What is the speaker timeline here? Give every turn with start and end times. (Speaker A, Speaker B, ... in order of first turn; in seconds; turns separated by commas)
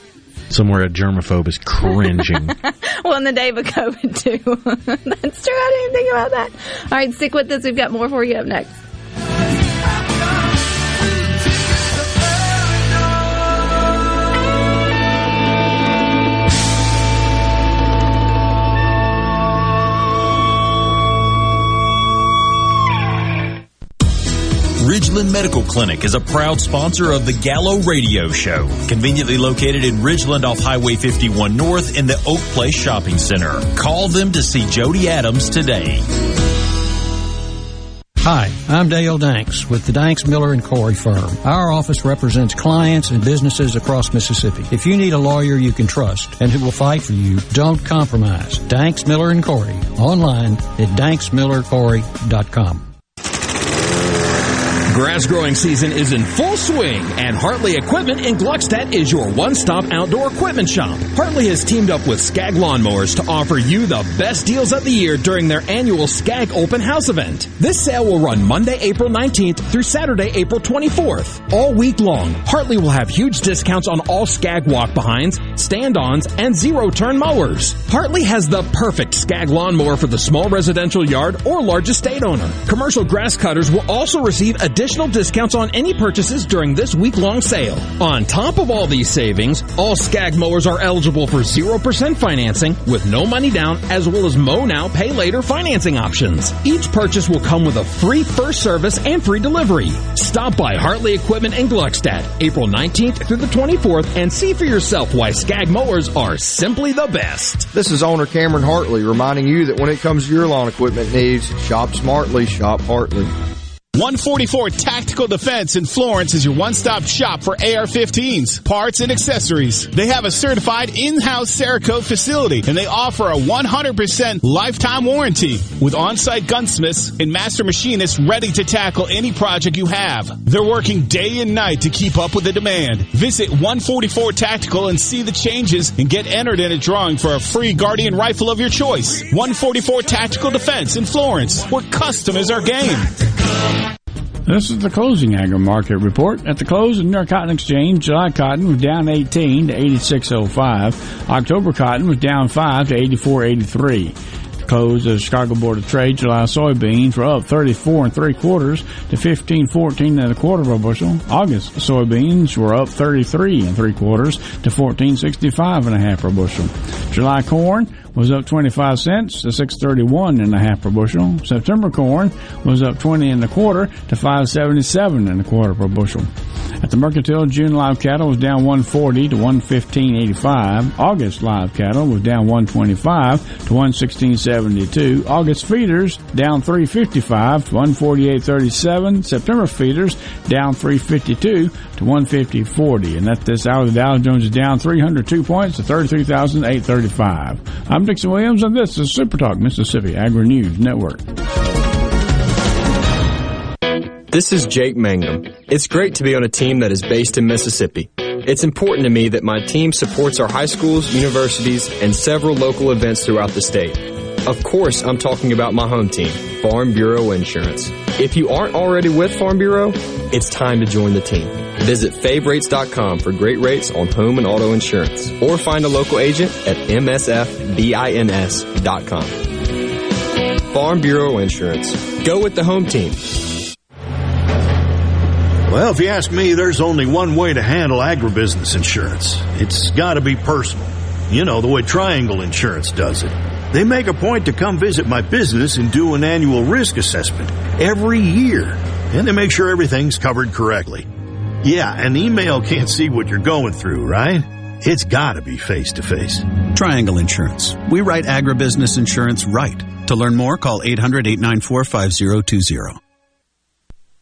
Speaker A: 0.5-2.5, Speaker B: 2.2-8.7, Speaker C: 24.8-36.0, Speaker D: 38.2-52.8, Speaker E: 54.9-107.7, Speaker F: 114.0-143.1, Speaker G: 144.5-176.3, Speaker G: 176.8-201.2, Speaker H: 204.3-229.4, Speaker H: 230.7-233.4, Speaker I: 235.8-251.0, Speaker I: 251.7-254.4, Speaker I: 255.1-256.4, Speaker J: 256.8-262.9